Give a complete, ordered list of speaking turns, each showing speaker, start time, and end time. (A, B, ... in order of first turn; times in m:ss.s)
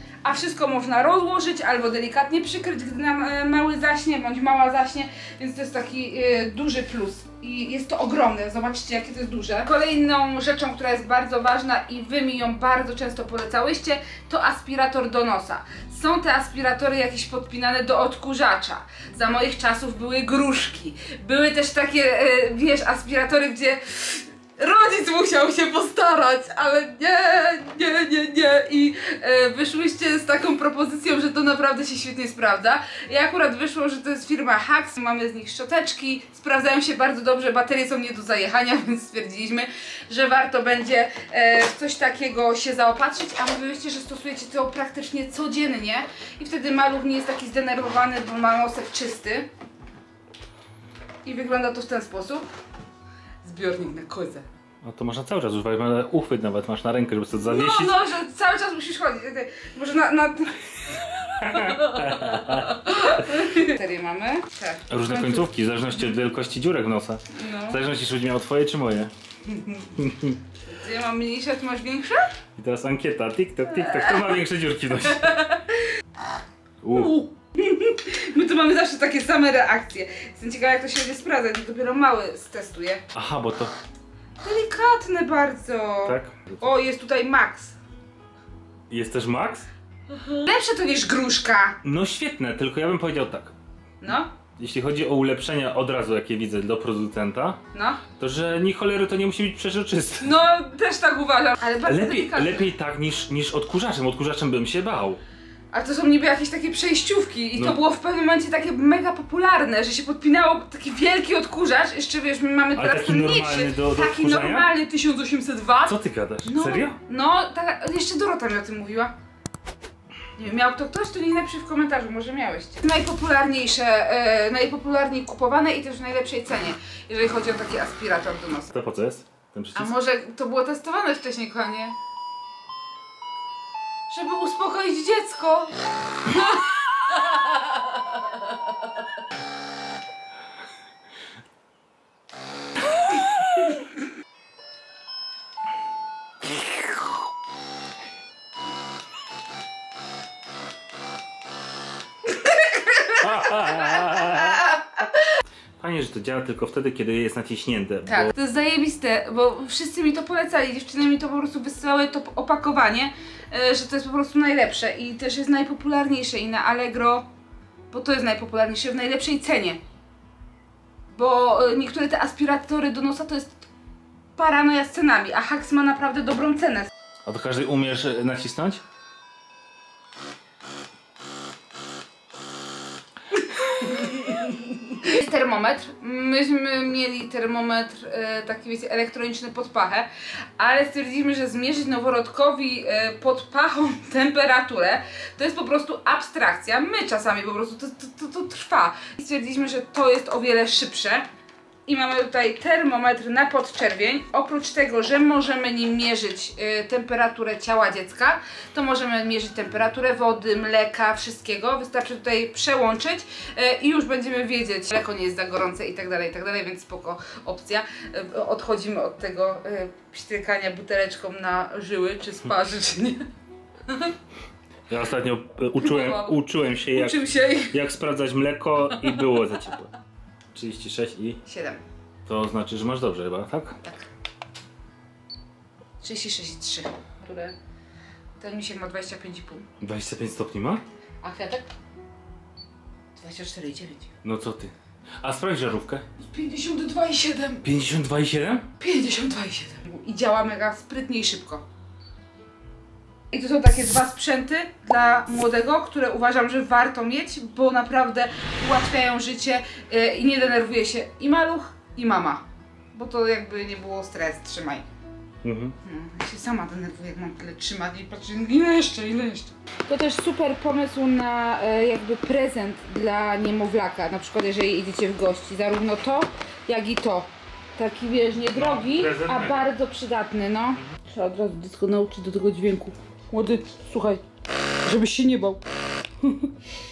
0:00.2-0:49.5 A
0:51.2-0:52.4 A
0:53.4-0:54.4 A
0:54.8-0:57.9 B
0:57.4-1:00.6 A
1:01.4-1:02.7 B
1:01.5-1:05.5 A
1:04.9-1:09.1 B
1:07.3-1:07.8 A
1:09.5-1:09.9 A
1:10.0-1:10.4 B
1:10.6-1:12.3 A
1:12.6-1:15.3 B
1:13.8-1:14.3 A
1:15.0-1:15.8 A
1:16.8-1:17.2 B
1:16.9-1:23.0 A
1:23.1-1:23.7 B
1:24.4-1:27.8 A
1:26.0-1:26.6 B
1:28.9-1:29.6 B
1:30.2-1:31.8 A
1:31.8-1:33.5 B
1:34.0-1:34.3 A
1:34.6-1:37.6 B
1:37.7-1:38.0 A
1:38.2-1:40.3 B
1:40.2-1:42.6 A
1:41.8-1:45.2 B
1:45.7-1:59.1 A
1:52.8-1:54.7 B
1:55.8-1:57.0 B
2:00.4-2:08.7 A
2:08.7-2:09.9 B
2:09.7-2:12.0 A
2:14.1-2:17.4 A
2:32.4-2:34.6 A
2:33.2-2:34.7 B
2:35.8-2:38.3 B
2:38.1-2:47.2 A
2:47.9-2:49.8 A
2:51.1-2:53.6 A
2:54.4-2:56.9 A
2:57.2-2:58.8 B
3:03.4-3:21.2 A
3:21.9-3:43.2 A
3:43.9-3:44.1 A
3:44.9-3:49.9 B
3:45.8-3:46.4 A
3:46.9-3:47.8 A
3:50.5-3:51.4 B
3:51.4-3:51.8 A
3:52.2-3:53.7 B
3:56.0-3:57.6 A
3:58.4-3:59.7 A
3:59.8-4:00.8 B
4:01.2-4:01.7 A
4:03.2-4:04.1 A
4:04.2-4:06.0 B
4:06.2-4:07.7 A
4:07.6-4:08.7 B
4:08.8-4:11.6 A
4:13.3-4:24.8 A
4:25.4-4:25.7 B
4:25.8-4:44.2 A
4:38.5-4:39.6 B
4:44.8-4:45.6 A
4:46.2-4:46.5 A